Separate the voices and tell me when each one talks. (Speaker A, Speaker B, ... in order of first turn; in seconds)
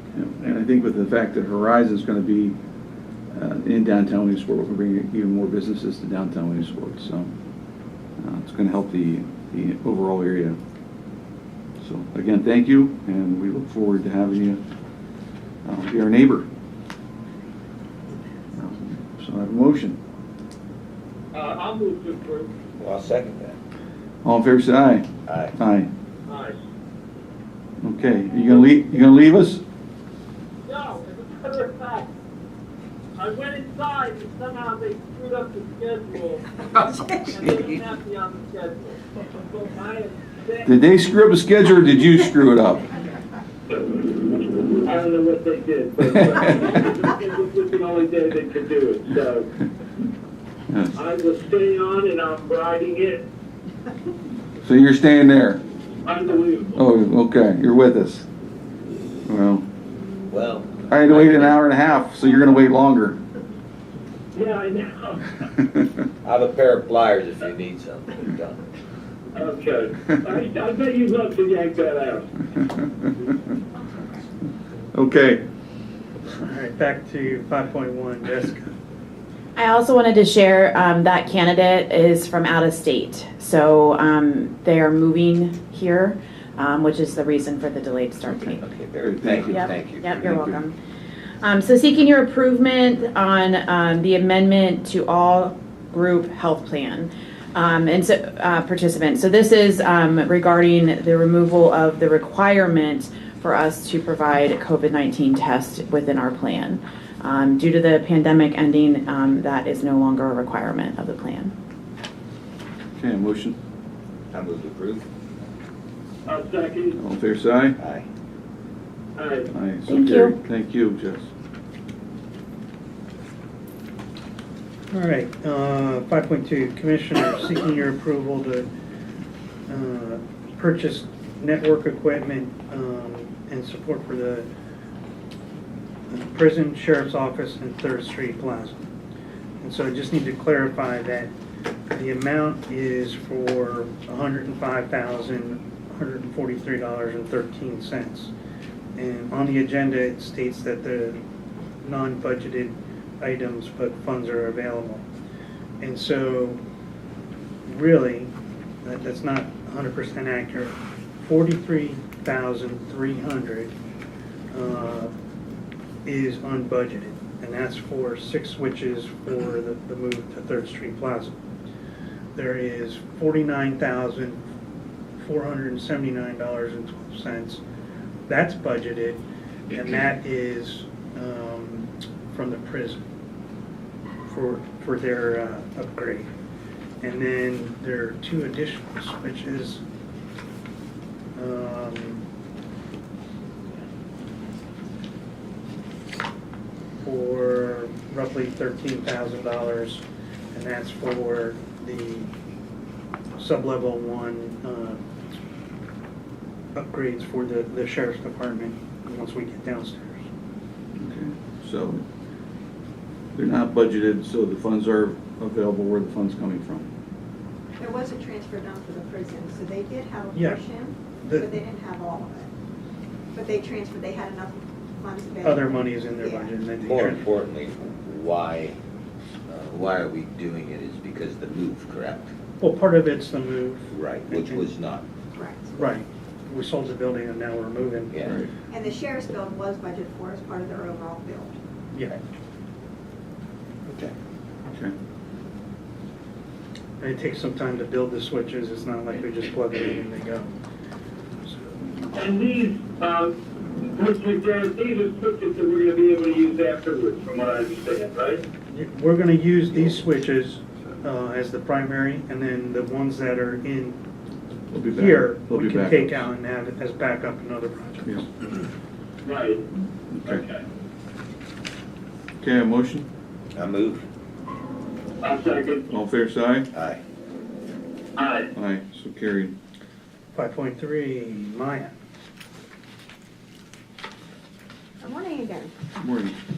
Speaker A: 0.1-2.5, 3.3-7.3, 8.2-10.6, 11.8-14.6, 15.6-16.5, 18.6-20.0, 24.2-25.9, 27.8-29.6, 40.6-42.9, 46.1-46.5, 54.6-55.6, 56.7-58.2, 59.3-59.6, 60.9-63.2, 74.9-75.4, 89.0-90.6, 113.0-113.6, 116.9-117.8, 119.5-121.3, 211.0-212.0, 213.3-216.9, 244.7-244.9, 264.7-266.3, 270.1-270.4, 272.4-273.1, 275.9-276.7, 278.5-279.5, 286.0-286.4
Speaker B: 21.3-22.5, 26.3-26.6, 30.7-32.1, 33.2-36.5, 37.3-40.7, 43.7-49.5, 51.0-53.2, 56.0-56.8, 64.3-65.4, 69.3-72.4, 116.3-116.9, 119.2-119.5, 252.2-258.4, 269.2-269.6, 270.2-270.6, 275.2-275.9, 278.2-278.5
Speaker C: 22.8-23.6, 25.2-25.5, 60.3-61.6, 66.2-68.6, 88.6-90.2, 114.3-115.0, 117.8-118.1, 226.8-228.8, 229.5-232.3, 233.9-235.0, 243.9-244.1, 273.5-274.1, 276.7-277.0
Speaker D: 76.4-78.7, 124.9-128.7, 129.7-134.5, 136.1-138.9, 139.6-141.3, 141.9-148.3, 148.9-151.2, 151.8-155.1, 155.8-156.6, 157.7-158.3, 158.8-163.7, 164.5-165.1, 166.1-171.3, 172.3-174.4, 175.2-177.6, 178.3-183.0, 184.3-186.3, 187.0-189.8, 191.3-192.2, 197.0-202.3, 203.4-205.1, 206.7-210.2, 220.3-220.6, 221.2-221.5, 225.4-227.2, 232.6-234.7, 235.7-238.4, 241.9-242.2, 247.0-250.5, 251.4-251.8, 258.7-264.0, 264.9-268.2, 280.3-281.9
Speaker E: 79.5-88.6, 89.5-90.7, 91.4-111.5, 119.9-120.3
Speaker F: 217.8-222.5, 223.3-226.5, 235.3-235.9, 238.7-241.5, 285.0-285.7